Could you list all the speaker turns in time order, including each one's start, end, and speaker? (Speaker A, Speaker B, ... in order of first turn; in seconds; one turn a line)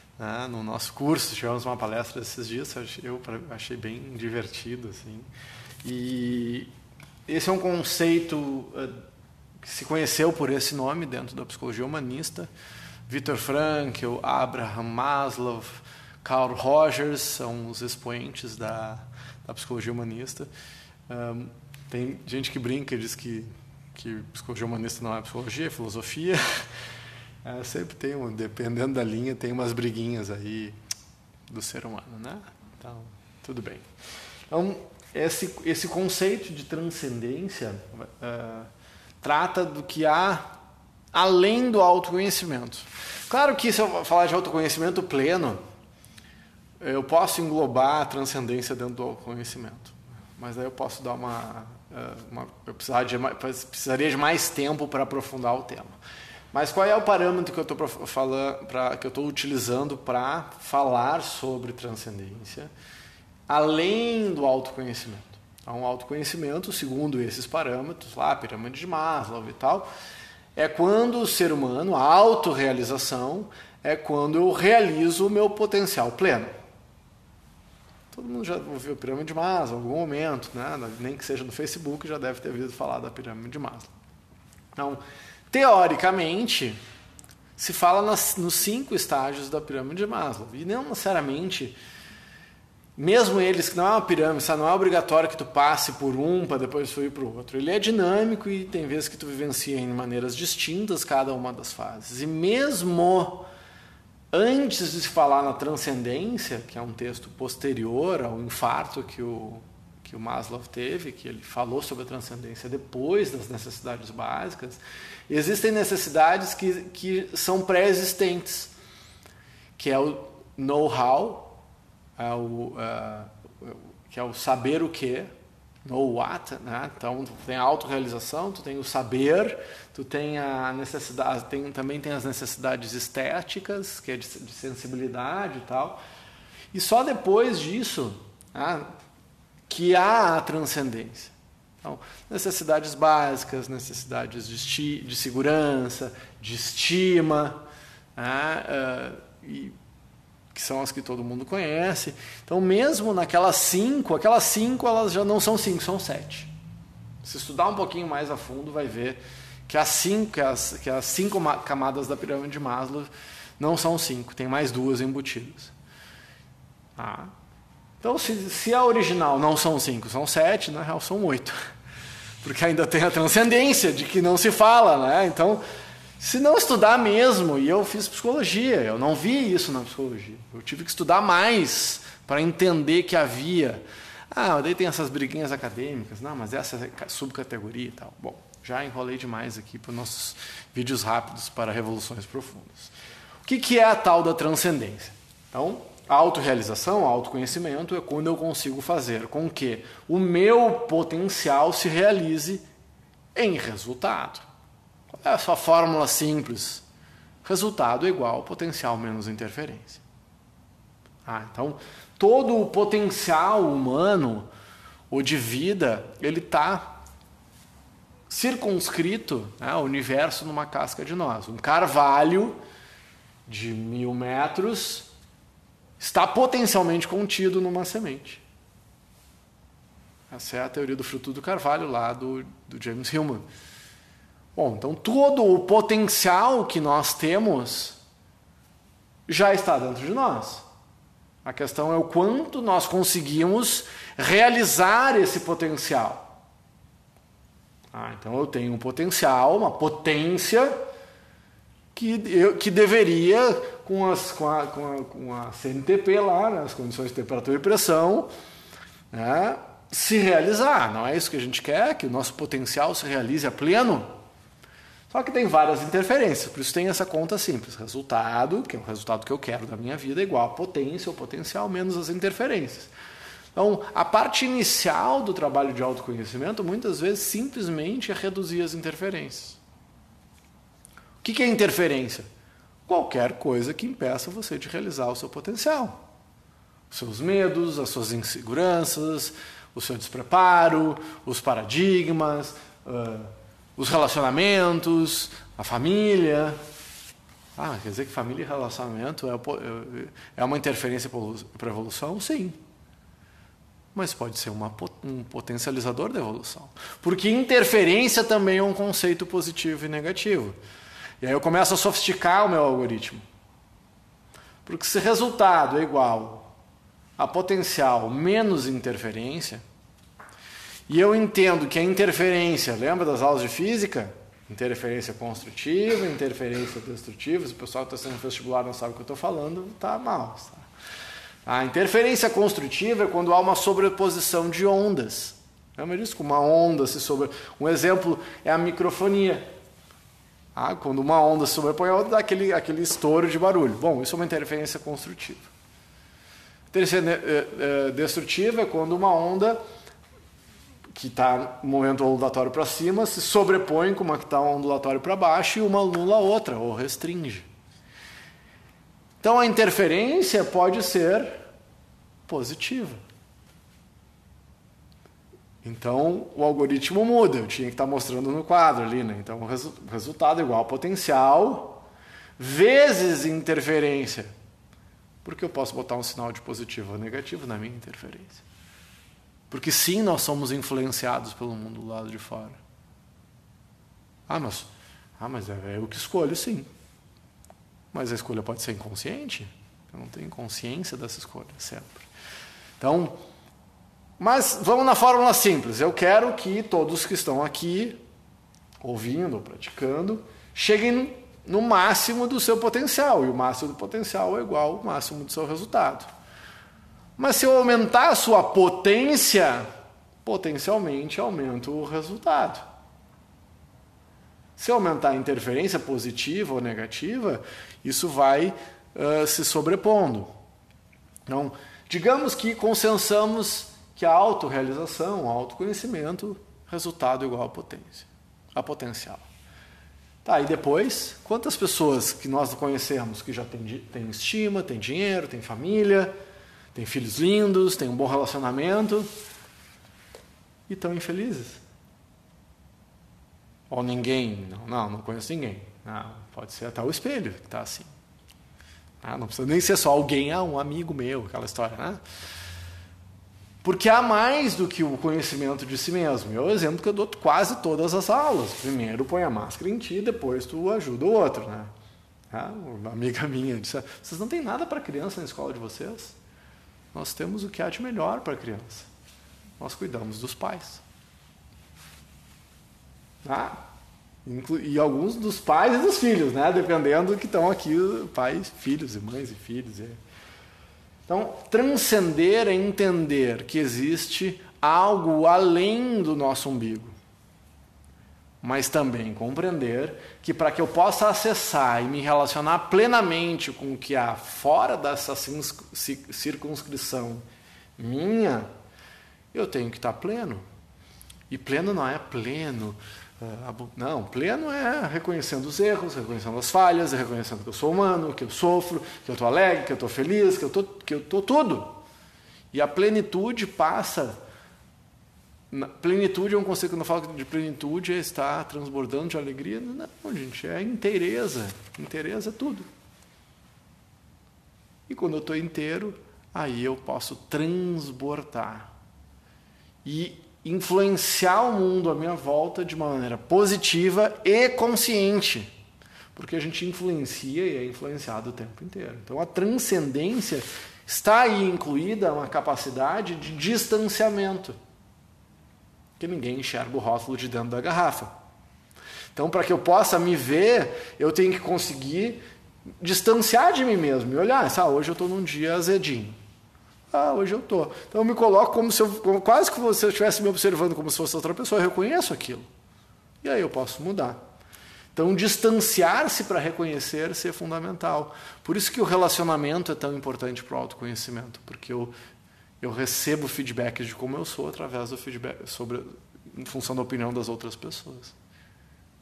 Speaker A: 0.2-5.3
Speaker A: 5.8-6.7
Speaker A: 7.3-9.0
Speaker A: 9.6-12.5
Speaker A: 13.1-20.5
Speaker A: 21.1-26.4
Speaker A: 27.4-30.8
Speaker A: 31.5-33.8
Speaker A: 34.5-38.7
Speaker A: 39.2-40.5
Speaker A: 41.1-45.6
Speaker A: 46.8-56.0
Speaker A: 56.5-62.7
Speaker A: 63.5-69.9
Speaker A: 70.5-76.5
Speaker A: 78.1-83.9
Speaker A: 85.5-86.8
Speaker A: 87.6-91.8
Speaker A: 93.0-103.5
Speaker A: 104.3-118.7
Speaker A: 119.8-121.5
Speaker A: 122.2-125.3
Speaker A: 125.8-136.0
Speaker A: 136.7-138.9
Speaker A: 139.7-147.6
Speaker A: 148.2-149.8
Speaker A: 150.5-156.5
Speaker A: 157.2-165.7
Speaker A: 167.0-167.3
Speaker A: 168.0-171.6
Speaker A: 172.4-175.6
Speaker A: 176.2-192.9
Speaker A: 193.4-202.6
Speaker A: 203.3-204.4
Speaker A: 205.1-206.8
Speaker A: 207.4-210.0
Speaker A: 211.2-214.5
Speaker A: 215.1-216.9
Speaker A: 218.3-222.6
Speaker A: 223.4-225.1
Speaker A: 226.0-228.4
Speaker A: 230.3-233.4
Speaker A: 234.5-238.0
Speaker A: 239.3-240.6
Speaker A: 241.4-246.3
Speaker A: 247.9-250.7
Speaker A: 251.9-258.3
Speaker A: 259.1-264.1
Speaker A: 265.1-272.9
Speaker A: 273.5-279.6
Speaker A: 281.2-282.2
Speaker A: 282.9-286.0
Speaker A: 286.9-296.6
Speaker A: 297.6-302.6
Speaker A: 303.9-310.6
Speaker A: 311.2-313.2
Speaker A: 314.6-316.5
Speaker A: 317.2-319.6
Speaker A: 320.9-330.6
Speaker A: 331.4-339.4
Speaker A: 340.5-345.5
Speaker A: 346.7-349.6
Speaker A: 350.9-357.5
Speaker A: 359.2-361.4
Speaker A: 362.2-363.0
Speaker A: 365.6-371.8
Speaker A: 372.4-374.3
Speaker A: 375.2-378.4
Speaker A: 379.5-382.6
Speaker A: 384.3-386.7
Speaker A: 387.9-392.1
Speaker A: 392.8-393.1
Speaker A: 394.2-398.0
Speaker A: 398.8-406.1
Speaker A: 407.2-409.7
Speaker A: 410.2-412.6
Speaker A: 414.6-420.3
Speaker A: 421.3-429.2
Speaker A: 430.2-436.1
Speaker A: 436.7-439.1
Speaker A: 440.7-441.6
Speaker A: 443.7-447.9
Speaker A: 449.0-452.0
Speaker A: 453.6-461.7
Speaker A: 462.3-466.1
Speaker A: 466.9-468.9
Speaker A: 469.6-470.8
Speaker A: 473.2-473.6
Speaker A: 474.2-480.0
Speaker A: 481.1-486.9
Speaker A: 488.4-497.2
Speaker A: 497.8-498.5
Speaker A: 499.3-500.4
Speaker A: 501.3-511.8
Speaker A: 512.5-514.2
Speaker A: 515.5-522.7
Speaker A: 524.9-528.7
Speaker A: 529.8-535.5
Speaker A: 536.1-544.6
Speaker A: 546.0-548.1
Speaker A: 549.1-552.2
Speaker A: 552.8-556.2
Speaker A: 556.9-562.5
Speaker A: 563.2-564.2
Speaker A: 564.9-571.9
Speaker A: 572.6-578.1